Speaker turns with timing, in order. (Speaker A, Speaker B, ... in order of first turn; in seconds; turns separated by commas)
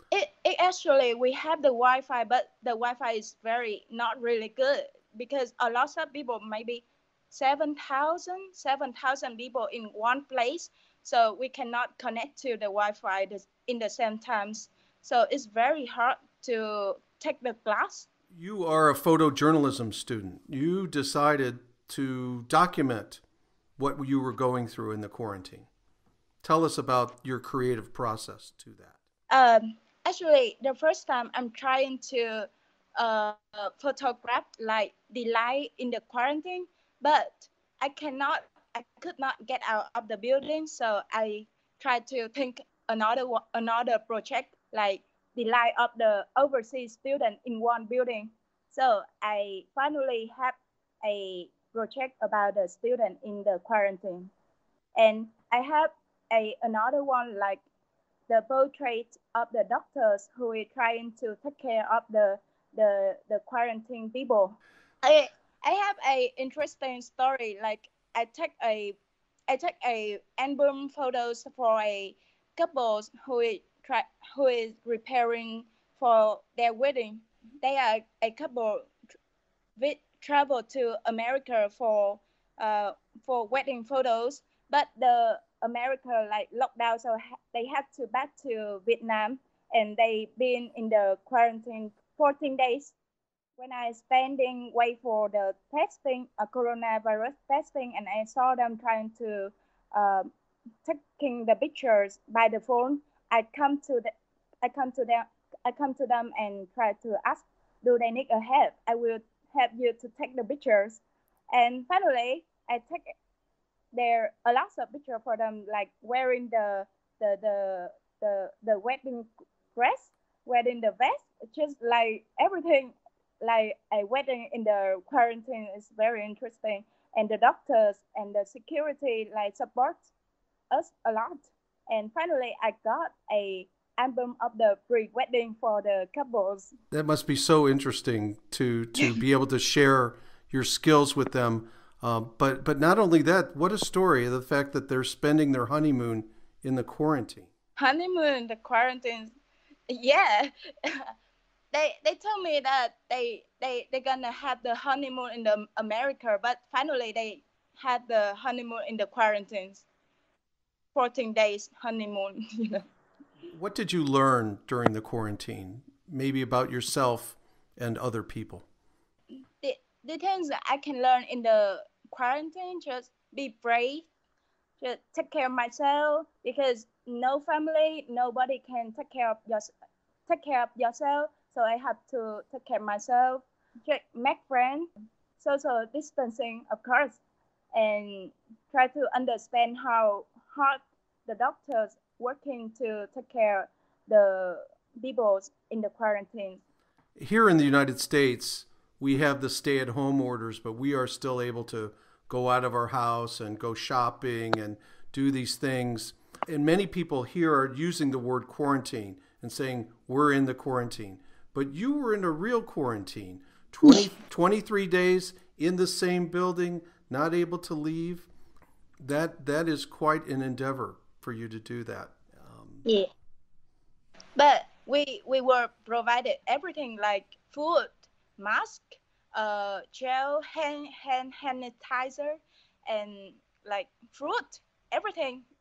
Speaker A: 0.1-18.1, Speaker B: 18.3-23.2, Speaker B: 23.8-25.7, Speaker B: 26.4-28.9, Speaker A: 29.3-54.3, Speaker A: 55.0-57.6, Speaker A: 58.3-69.0, Speaker A: 69.5-78.9, Speaker A: 79.8-92.9, Speaker A: 93.6-100.3, Speaker A: 100.8-104.1, Speaker A: 104.6-111.0, Speaker A: 111.5-113.1, Speaker A: 113.9-130.0, Speaker A: 130.7-136.7, Speaker B: 136.9-147.5, Speaker A: 147.8-149.3, Speaker A: 149.9-151.1, Speaker A: 151.7-159.8, Speaker A: 160.9-162.8, Speaker B: 163.5-168.7, Speaker A: 169.6-174.1, Speaker A: 174.8-179.7, Speaker A: 180.3-187.2, Speaker A: 187.7-196.6, Speaker B: 197.2-218.3, Speaker B: 219.0-222.8, Speaker A: 224.4-235.4